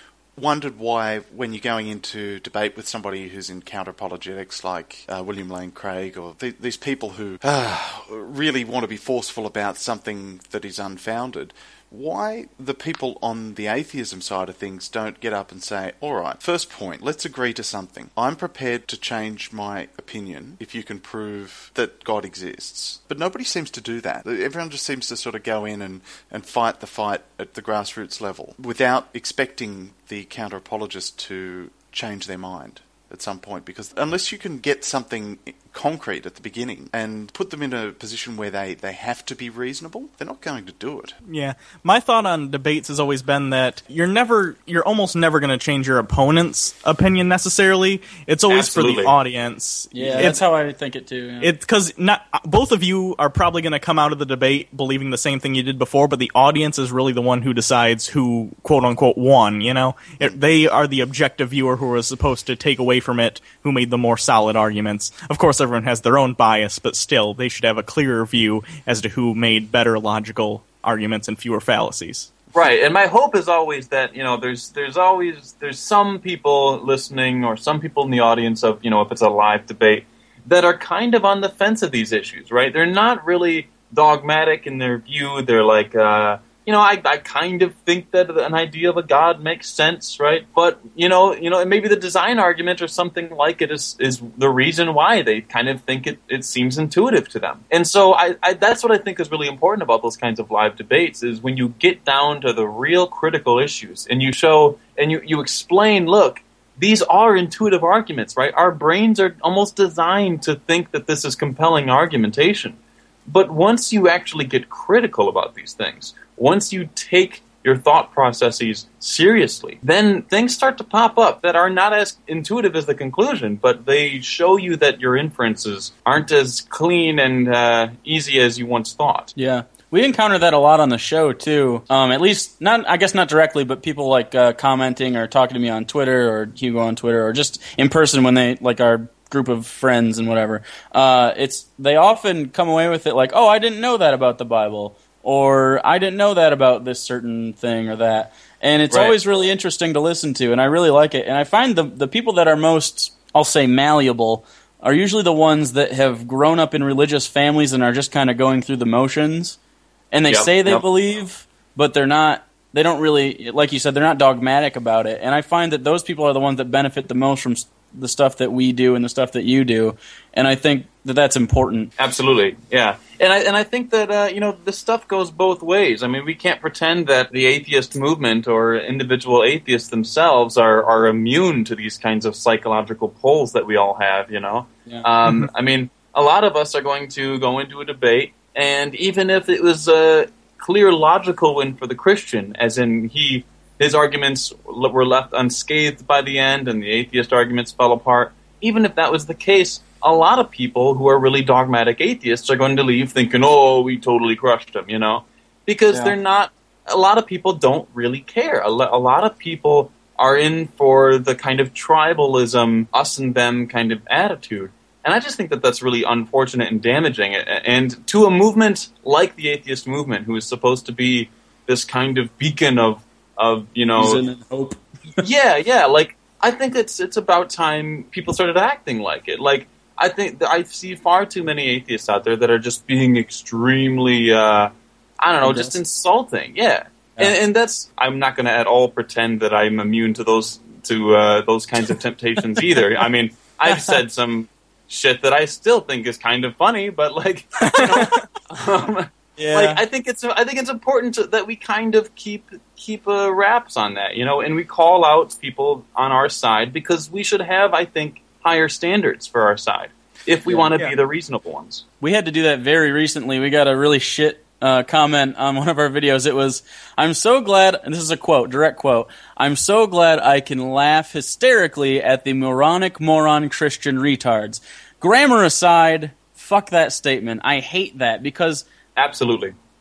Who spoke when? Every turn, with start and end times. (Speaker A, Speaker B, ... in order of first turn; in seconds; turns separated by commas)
Speaker A: 0.4-41.2, Speaker B: 41.2-50.4, Speaker C: 48.5-49.1, Speaker D: 49.9-51.5, Speaker B: 51.4-72.3, Speaker C: 72.5-129.3, Speaker D: 129.3-159.6, Speaker C: 148.9-149.2, Speaker D: 160.1-171.9, Speaker C: 160.3-160.8, Speaker C: 172.0-224.2, Speaker D: 224.0-225.2, Speaker C: 225.2-261.8, Speaker D: 235.4-235.7, Speaker D: 243.7-244.0, Speaker B: 247.7-248.2, Speaker D: 249.4-249.8, Speaker D: 260.4-260.8, Speaker D: 262.0-278.6, Speaker C: 279.0-279.5